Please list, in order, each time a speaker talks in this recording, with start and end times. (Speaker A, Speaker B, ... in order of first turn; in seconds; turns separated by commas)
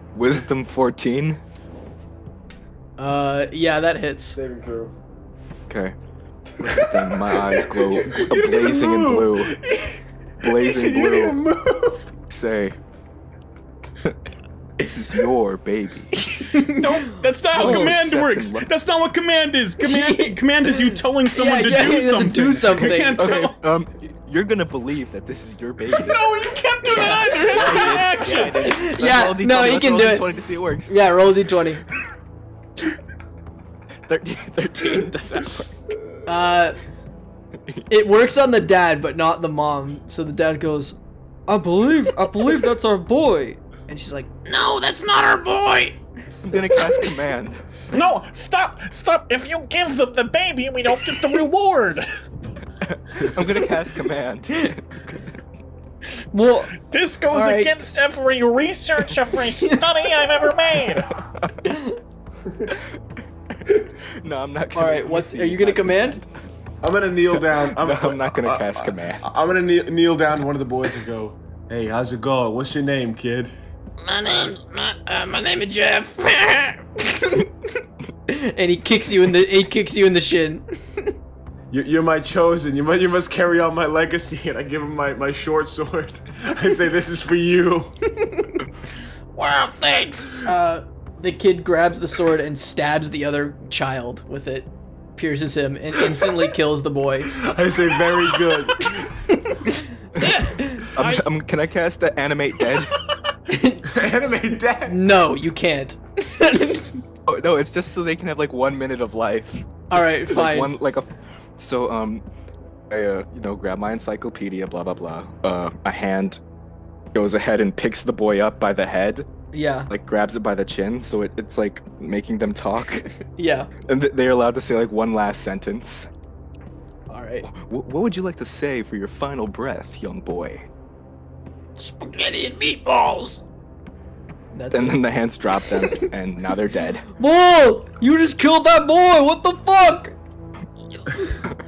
Speaker A: 0.1-1.4, Speaker B: 3.0-4.4, Speaker C: 4.3-4.9, Speaker A: 5.7-6.0, Speaker A: 6.6-9.6, Speaker C: 6.6-12.1, Speaker A: 10.4-11.4, Speaker A: 12.3-12.8, Speaker A: 14.8-16.1, Speaker B: 16.2-17.9, Speaker D: 16.5-23.6, Speaker A: 17.5-18.7, Speaker B: 19.8-23.5, Speaker A: 22.7-26.3, Speaker D: 25.9-28.6, Speaker A: 26.9-31.0, Speaker B: 26.9-30.3, Speaker B: 30.9-31.8, Speaker A: 34.1-35.7, Speaker B: 36.3-36.8, Speaker B: 37.9-44.3, Speaker E: 44.5-46.0, Speaker A: 46.4-47.6, Speaker F: 47.9-52.0, Speaker A: 52.9-55.0, Speaker B: 56.3-56.8, Speaker F: 56.8-61.1, Speaker B: 57.3-57.7, Speaker A: 61.2-61.6, Speaker B: 61.6-62.0, Speaker A: 63.7-66.3, Speaker B: 64.8-66.2, Speaker C: 66.8-73.5, Speaker A: 67.3-69.3, Speaker E: 74.0-77.1, Speaker B: 78.3-81.1, Speaker C: 81.7-88.0, Speaker E: 89.3-90.4, Speaker B: 90.4-97.4, Speaker C: 97.3-99.0, Speaker B: 99.3-99.8, Speaker E: 100.2-101.3, Speaker A: 100.2-103.0, Speaker B: 100.6-100.9, Speaker B: 103.5-103.9, Speaker C: 103.9-105.0, Speaker B: 104.9-106.9, Speaker A: 107.3-112.2, Speaker B: 109.9-110.8, Speaker A: 112.9-116.4, Speaker A: 117.1-119.3, Speaker B: 119.5-119.9, Speaker A: 119.9-123.1, Speaker B: 123.3-123.7, Speaker A: 123.9-126.1, Speaker B: 127.1-127.5, Speaker A: 127.5-130.7, Speaker E: 131.8-133.4, Speaker B: 134.5-135.0, Speaker A: 134.7-137.1, Speaker B: 137.2-140.2